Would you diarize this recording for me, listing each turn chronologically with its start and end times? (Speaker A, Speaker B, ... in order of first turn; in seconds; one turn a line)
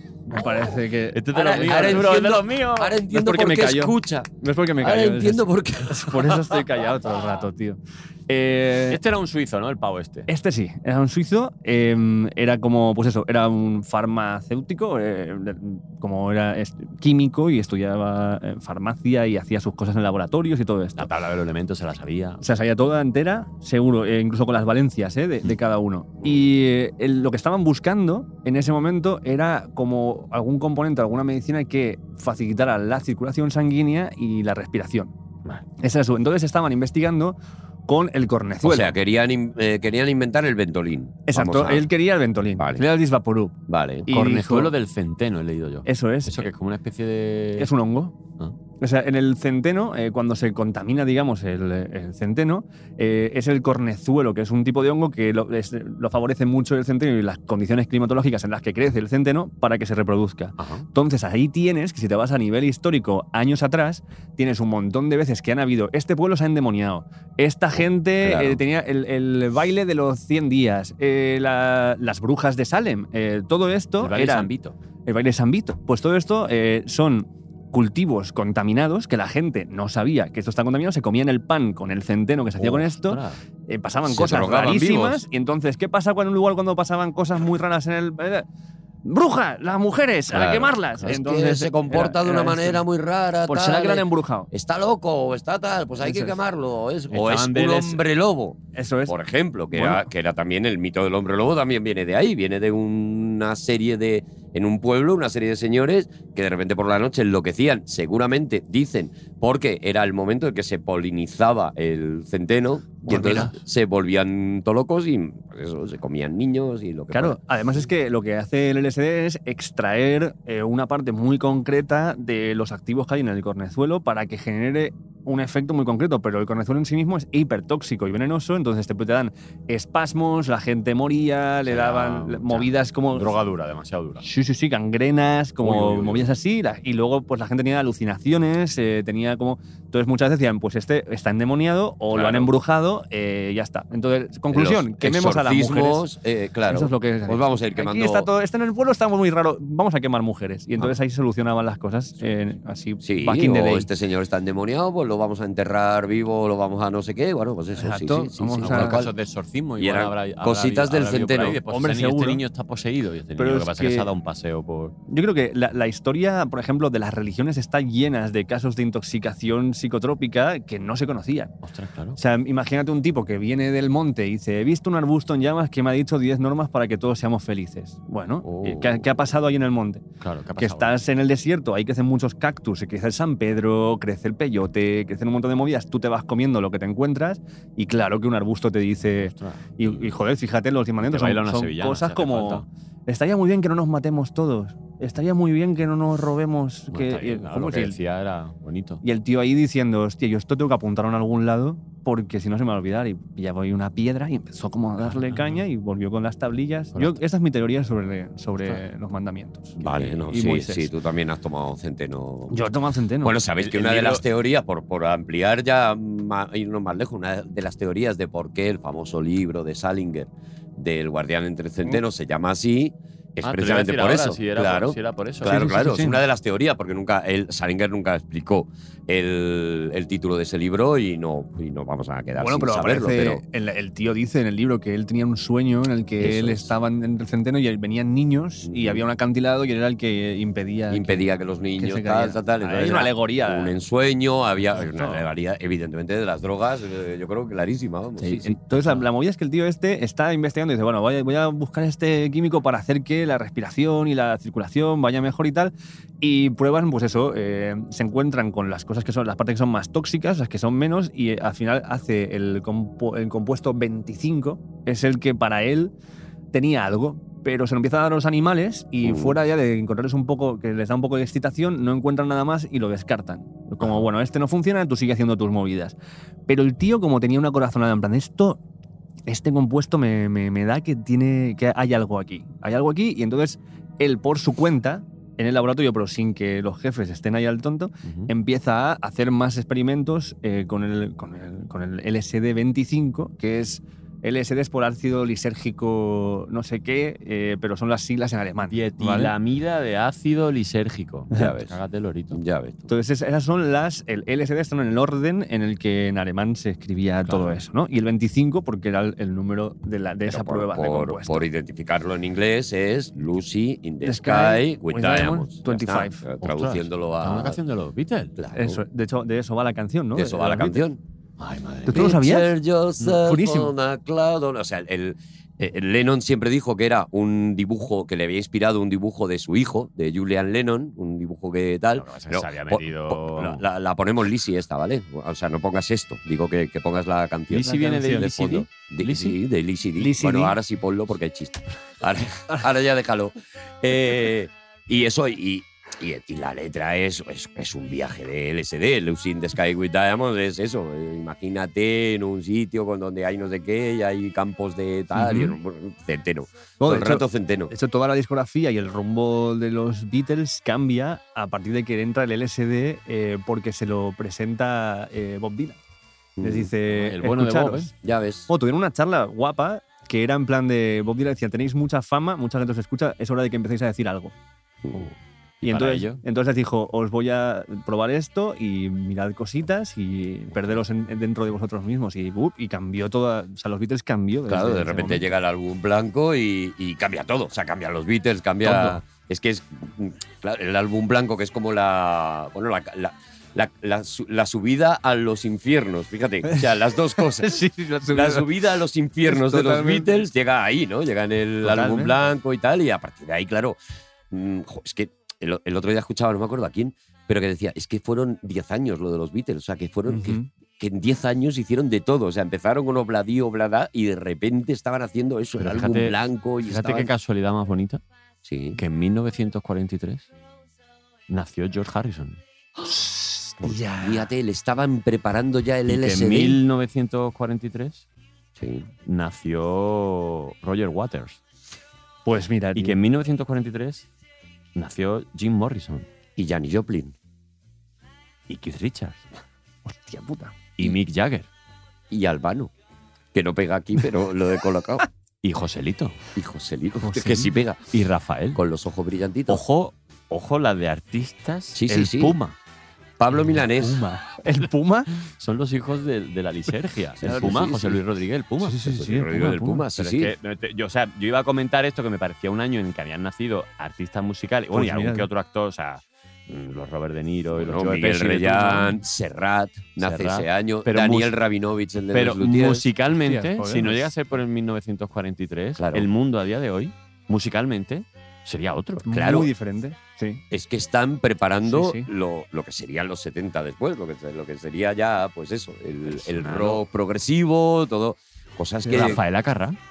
Speaker A: 0.3-2.0
Speaker B: 1.1-3.0
Speaker C: 1.3-6.6
Speaker A: 3.1-9.0
Speaker B: 8.9-10.3
Speaker A: 10.3-21.1
Speaker B: 21.0-22.4
Speaker A: 22.4-35.1
Speaker A: 35.8-38.9
Speaker C: 38.6-41.9
Speaker A: 41.3-43.5
Speaker C: 42.6-42.8
Speaker C: 43.7-44.1
Speaker A: 44.1-44.7
Speaker B: 44.1-47.7
Speaker A: 45.9-46.5
Speaker A: 47.6-48.1
Speaker A: 48.8-74.5
Speaker B: 60.6-60.8
Speaker C: 68.2-68.6
Speaker B: 74.0-74.7
Speaker A: 75.0-88.5
Speaker B: 82.6-83.4
Speaker C: 84.0-85.2
Speaker A: 89.0-92.8
Speaker C: 90.3-117.4
Speaker A: 93.5-94.5
Speaker A: 96.0-96.4
Speaker B: 97.1-98.0
Speaker A: 98.7-99.2
Speaker A: 99.7-100.1
Speaker A: 113.1-113.5
Speaker A: 117.1-133.3
Speaker B: 131.7-134.2
Speaker A: 134.2-146.1
Speaker B: 135.6-136.3
Speaker B: 142.1-142.5
Speaker C: 144.5-148.3
Speaker A: 146.7-153.9
Speaker C: 153.0-159.1
Speaker A: 157.8-159.0
Speaker B: 158.6-164.9
Speaker C: 159.8-161.6
Speaker A: 161.4-162.4
Speaker A: 163.4-164.1
Speaker A: 165.1-171.5
Speaker B: 171.6-172.2
Speaker A: 172.2-180.0
Speaker B: 178.4-179.1
Speaker B: 180.2-180.9
Speaker A: 180.6-198.0
Speaker B: 189.2-190.1
Speaker B: 191.0-192.7
Speaker B: 196.9-199.0
Speaker A: 199.0-209.8
Speaker B: 205.0-205.6
Speaker B: 206.9-207.2
Speaker C: 209.8-212.6
Speaker B: 209.8-210.2
Speaker A: 210.3-210.9
Speaker A: 212.5-213.3
Speaker C: 213.2-233.4
Speaker B: 213.6-214.2
Speaker B: 223.4-225.5
Speaker A: 225.4-226.2
Speaker A: 232.4-243.8
Speaker C: 236.2-236.7
Speaker C: 238.6-239.0
Speaker C: 240.9-248.6
Speaker A: 244.8-245.2
Speaker A: 248.2-265.9
Speaker A: 266.5-275.9
Speaker C: 269.0-269.4
Speaker A: 276.5-278.6
Speaker A: 279.3-299.3
Speaker B: 288.0-288.3
Speaker B: 298.7-302.4
Speaker C: 301.3-301.7
Speaker C: 302.3-302.9
Speaker A: 302.9-311.4
Speaker B: 307.2-307.6
Speaker C: 310.3-317.6
Speaker A: 314.0-316.2
Speaker B: 316.4-318.3
Speaker C: 318.4-318.8
Speaker A: 318.5-320.8
Speaker C: 320.1-321.0
Speaker B: 321.4-322.1
Speaker A: 321.9-322.5
Speaker C: 321.9-357.7
Speaker A: 323.1-323.7
Speaker B: 332.0-333.6
Speaker B: 337.5-339.4
Speaker A: 337.6-338.3
Speaker A: 340.0-340.6
Speaker A: 355.1-355.5
Speaker A: 356.8-365.8
Speaker C: 366.4-366.7
Speaker A: 366.4-367.9
Speaker B: 366.9-367.9
Speaker C: 368.0-368.5
Speaker A: 368.5-374.3
Speaker B: 374.9-376.2
Speaker A: 375.6-385.2
Speaker C: 384.5-403.8
Speaker A: 388.6-389.0
Speaker A: 396.5-398.5
Speaker A: 399.2-400.1
Speaker A: 401.6-402.1
Speaker C: 404.3-417.1
Speaker A: 410.1-410.5
Speaker B: 415.6-418.0
Speaker C: 418.4-418.8
Speaker B: 418.8-420.3
Speaker B: 421.3-422.4
Speaker A: 422.8-424.2
Speaker C: 423.9-426.6
Speaker B: 425.9-428.1
Speaker C: 428.6-428.9
Speaker B: 429.1-431.4
Speaker A: 432.2-433.0
Speaker B: 432.8-434.1
Speaker B: 434.8-436.1
Speaker C: 436.4-437.1
Speaker B: 438.5-439.3
Speaker A: 439.8-440.5
Speaker B: 440.8-441.5
Speaker C: 442.1-442.7
Speaker C: 443.3-445.1
Speaker B: 445.4-446.2
Speaker C: 446.3-447.8
Speaker A: 447.0-447.5
Speaker B: 447.9-448.6
Speaker C: 448.5-449.6
Speaker B: 449.5-452.5
Speaker C: 451.7-452.4
Speaker C: 453.2-454.0
Speaker A: 453.7-455.1
Speaker B: 455.3-458.9
Speaker C: 457.2-458.0
Speaker A: 457.2-457.5
Speaker A: 458.6-459.8
Speaker C: 458.9-460.3
Speaker B: 459.9-469.0
Speaker A: 464.7-465.3
Speaker C: 467.5-472.9
Speaker B: 470.0-471.3
Speaker B: 472.1-479.1
Speaker A: 473.1-474.1
Speaker C: 475.8-476.1
Speaker A: 479.0-480.4
Speaker C: 479.1-479.5
Speaker C: 480.5-489.2
Speaker A: 481.6-482.1
Speaker B: 486.1-486.8
Speaker A: 488.8-489.2
Speaker B: 488.9-489.8